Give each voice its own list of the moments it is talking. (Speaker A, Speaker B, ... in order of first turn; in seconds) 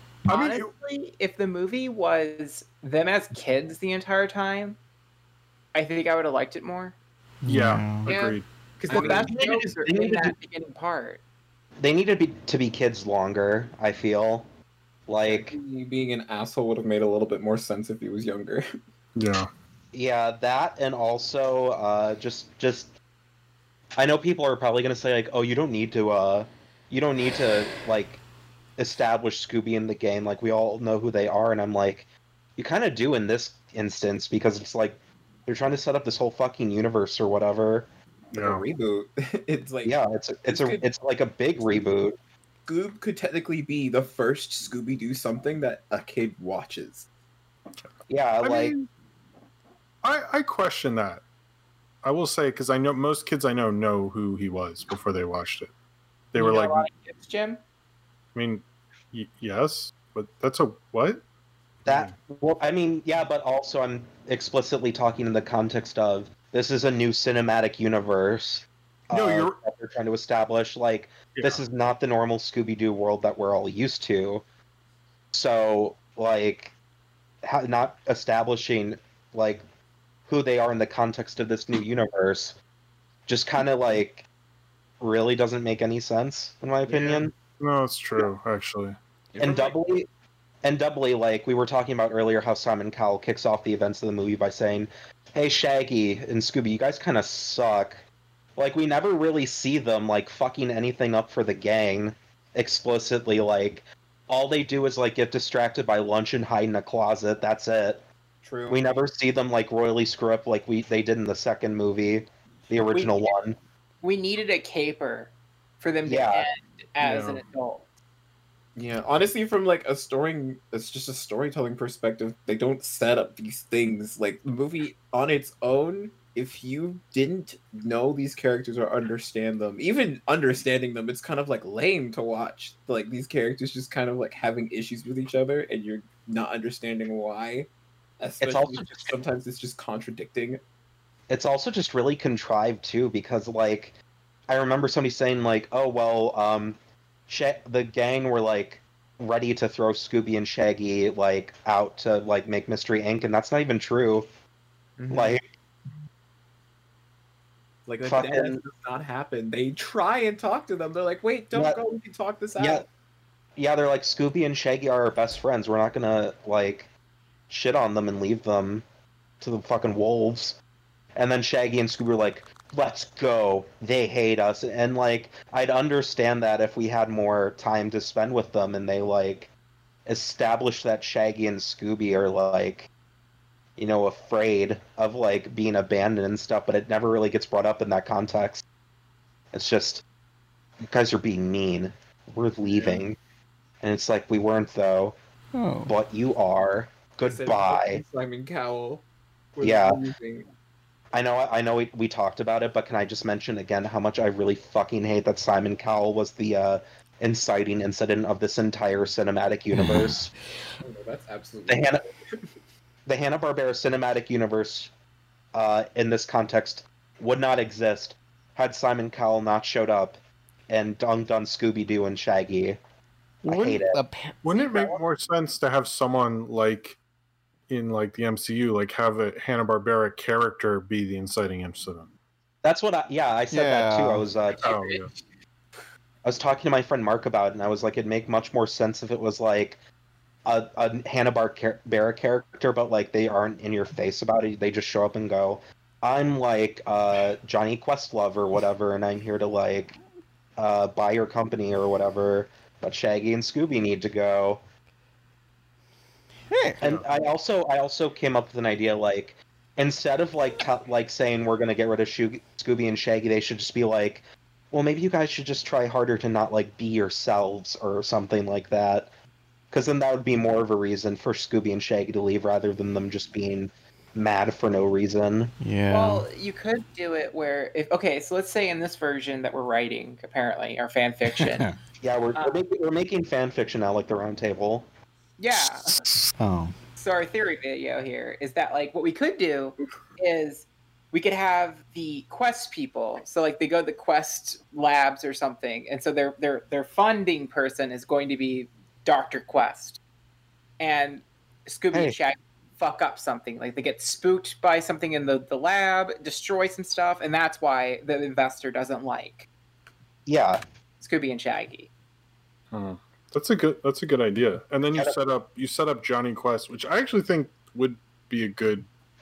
Speaker A: 0.3-0.7, 7.5-9.3, 19.2-19.5, 38.4-38.6, 48.4-48.9, 50.0-51.2, 52.0-55.7, 56.3-56.9, 58.4-61.2, 61.9-62.1, 69.1-69.6, 71.4-71.6, 87.6-89.0, 117.0-117.4, 192.8-193.0, 224.4-227.0, 227.7-232.1, 234.6-235.1, 312.7-318.9
Speaker B: 0.3-4.8, 5.7-7.0, 8.1-11.2, 56.4-57.6, 112.9-113.4, 114.0-117.9, 275.9-281.7, 282.4-282.6, 285.4-286.0, 287.0-300.0, 300.8-309.5, 311.0-311.9
Speaker C: 7.4-8.1, 195.5-195.9, 209.7-210.2, 223.4-225.0, 233.5-234.3, 256.5-256.8, 275.6-276.3, 281.3-281.7, 286.4-286.7
Speaker D: 8.8-9.4, 15.2-18.7, 38.3-40.9, 42.7-47.1, 86.9-87.2, 89.3-89.8, 108.4-109.0, 118.8-137.7, 138.2-140.6, 155.0-155.4, 157.9-162.8, 197.2-199.0, 199.6-200.5, 210.8-212.5
Speaker E: 9.0-10.3, 11.8-14.5, 15.1-15.6, 19.9-22.9, 24.0-28.2, 28.8-37.9, 39.8-42.2, 48.1-48.7, 61.9-74.4, 75.3-76.7, 77.4-79.6, 80.3-82.6, 83.3-84.3, 85.0-87.3, 89.4-90.1, 90.6-98.0, 98.6-108.0, 108.7-113.6, 116.1-116.5, 138.4-139.2, 141.3-143.9, 144.5-146.8, 147.3-154.3, 155.1-155.4, 158.0-158.6, 161.5-161.8, 162.6-162.8, 163.6-166.9, 167.5-168.8, 169.4-170.6, 171.2-179.5, 180.1-182.9, 183.8-188.6, 189.5-190.0, 190.8-193.2, 193.8-195.2, 195.9-198.0, 199.6-200.0, 201.1-210.3, 211.7-212.1, 213.1-214.9, 215.5-222.8, 223.4-224.0, 232.6-234.8, 236.2-239.8, 240.4-250.0, 250.6-254.6, 256.8-269.1, 269.7-275.5, 282.0-284.9, 310.3-310.6